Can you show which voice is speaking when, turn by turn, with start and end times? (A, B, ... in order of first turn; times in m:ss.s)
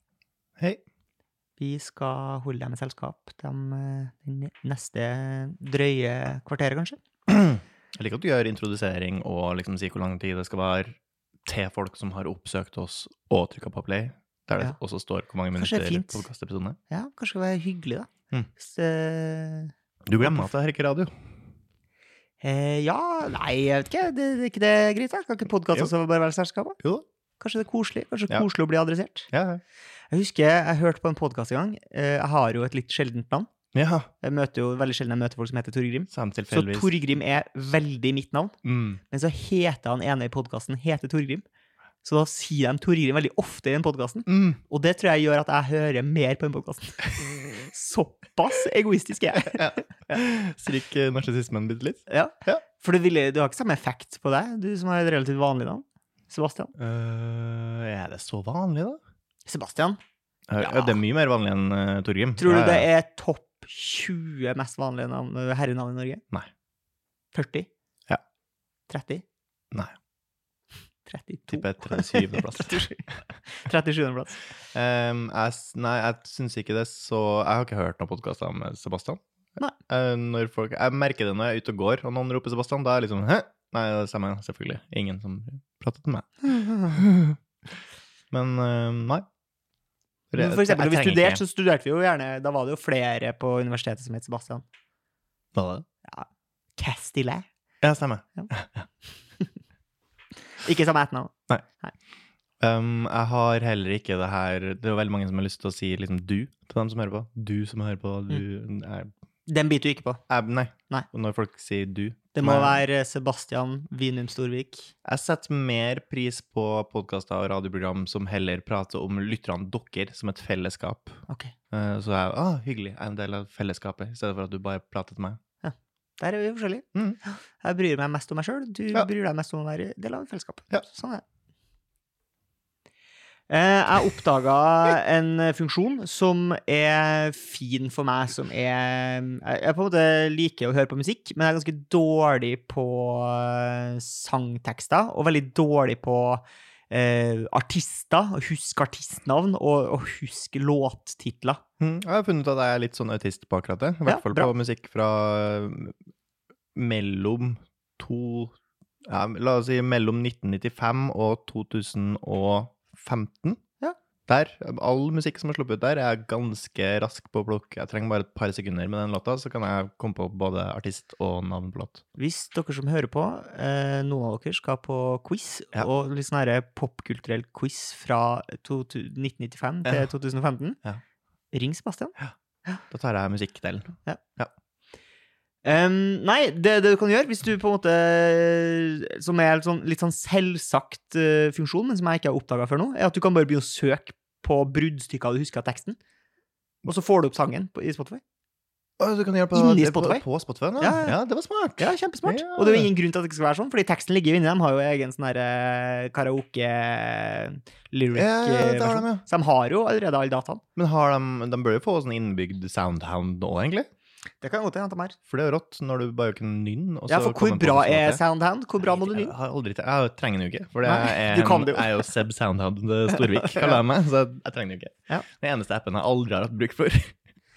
0:01.6-0:07.0 A
0:07.3-0:16.8 B
0:15.6-0:16.2 A
0:16.9-0:20.5 A
0:20.1-0:21.1 B
0:22.4-0:26.8 A
0:27.4-0:29.3 A
0:29.3-0:29.6 B
0:30.1-0:33.5 A
0:33.7-0:34.1 B
0:34.2-0:38.6 A
0:36.1-0:37.0 B
0:38.6-0:39.0 B
0:39.1-0:41.4 A
0:42.0-0:49.8 A
0:44.3-0:44.6 B
0:49.5-0:52.6 B
0:52.1-0:56.7 A
0:56.8-0:59.0 B
0:59.5-1:00.0 A
1:00.5-1:02.9 B
1:00.6-1:01.0 A
1:02.4-1:06.2 A
1:07.3-1:07.7 A
1:08.9-1:09.2 A
1:11.1-1:14.4 A
1:11.5-1:12.9 B
1:14.7-1:27.4 B
1:26.5-1:27.0 A
1:28.3-1:29.2 B
1:30.3-1:31.4 B
1:30.4-1:34.6 A
1:35.6-1:35.8 B
1:36.1-1:37.5 A
1:37.8-1:38.9 B
1:40.6-1:41.9 A
1:42.6-1:49.1 B
1:49.5-1:50.2 A
1:50.3-1:52.8 B
1:52.4-1:54.9 A
1:55.0-2:01.2 B
2:01.3-2:01.5 A
2:01.7-2:05.4 B
2:05.6-2:11.2 A
2:13.5-2:31.6 A
2:31.8-2:35.9 B
2:34.1-2:34.5 A
2:36.8-2:38.6 B
2:39.1-2:43.6 B
2:44.3-2:52.0 B
2:52.2-3:00.8 A
3:01.5-3:02.2 A
3:02.9-3:04.5 B
3:05.6-3:16.0 A
3:16.8-3:18.2 A
3:19.0-3:22.9 B
3:19.5-3:20.2 A
3:20.8-3:21.2 A
3:21.8-3:30.6 A
3:28.2-3:29.2 B
3:30.8-3:33.9 B
3:34.4-3:35.2 A
3:35.3-3:38.2 B
3:37.1-3:39.3 A
3:38.8-3:47.1 B
3:40.8-3:42.1 A
3:43.4-3:43.8 A